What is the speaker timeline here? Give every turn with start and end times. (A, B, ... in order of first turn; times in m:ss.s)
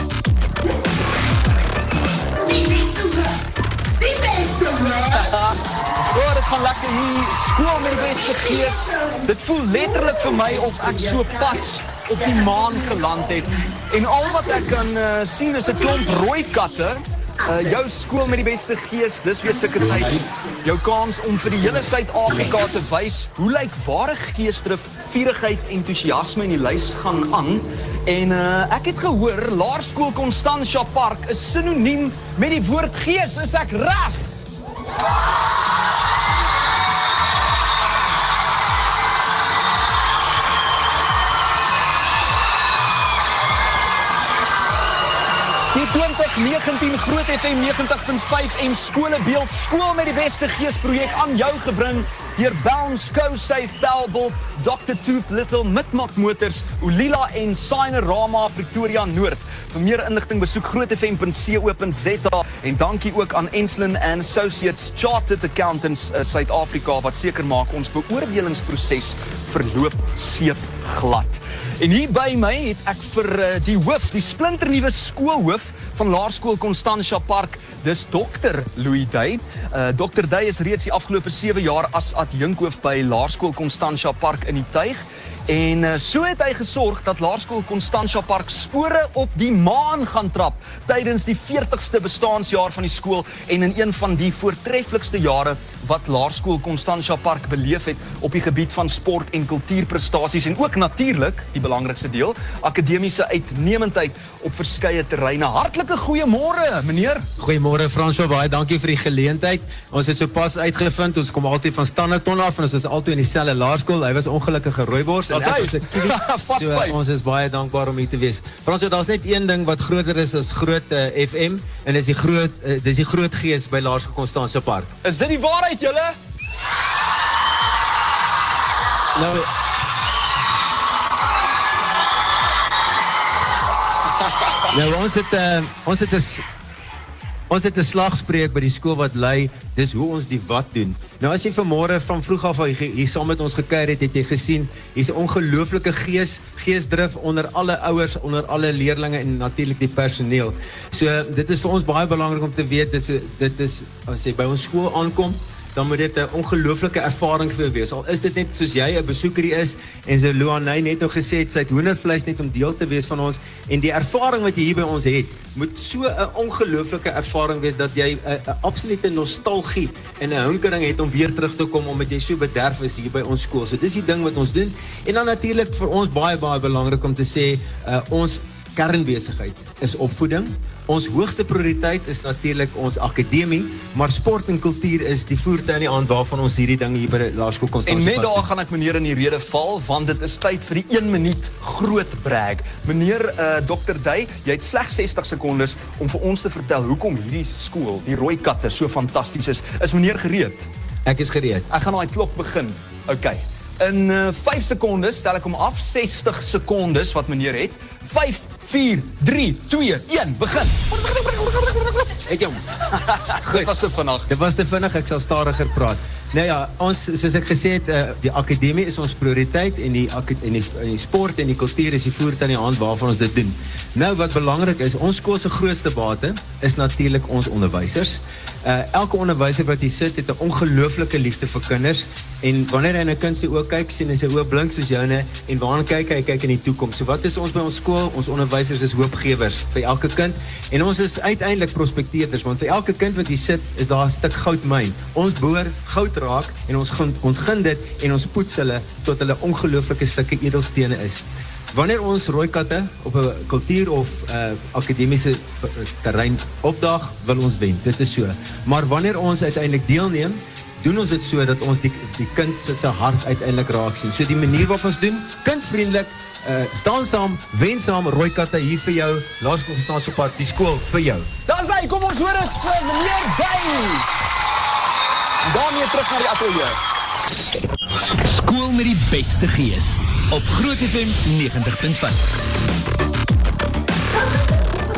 0:04.1-0:05.6 A
0:06.1-0:34.3 A
0:45.7-1:47.3 A
1:47.4-2:04.9 B
1:55.3-1:57.0 A
2:05.0-2:06.1 A
2:09.2-2:09.5 B
2:14.7-2:16.4 B
2:17.5-3:08.5 B
3:07.9-3:20.7 A
3:21.0-3:21.7 B
3:21.7-3:31.0 A
3:32.2-3:32.8 B
3:33.1-3:34.3 A
3:33.4-3:33.7 B
3:34.3-4:31.3 B
4:31.5-4:34.1 A
4:35.4-4:36.8 A
4:38.2-4:42.2 C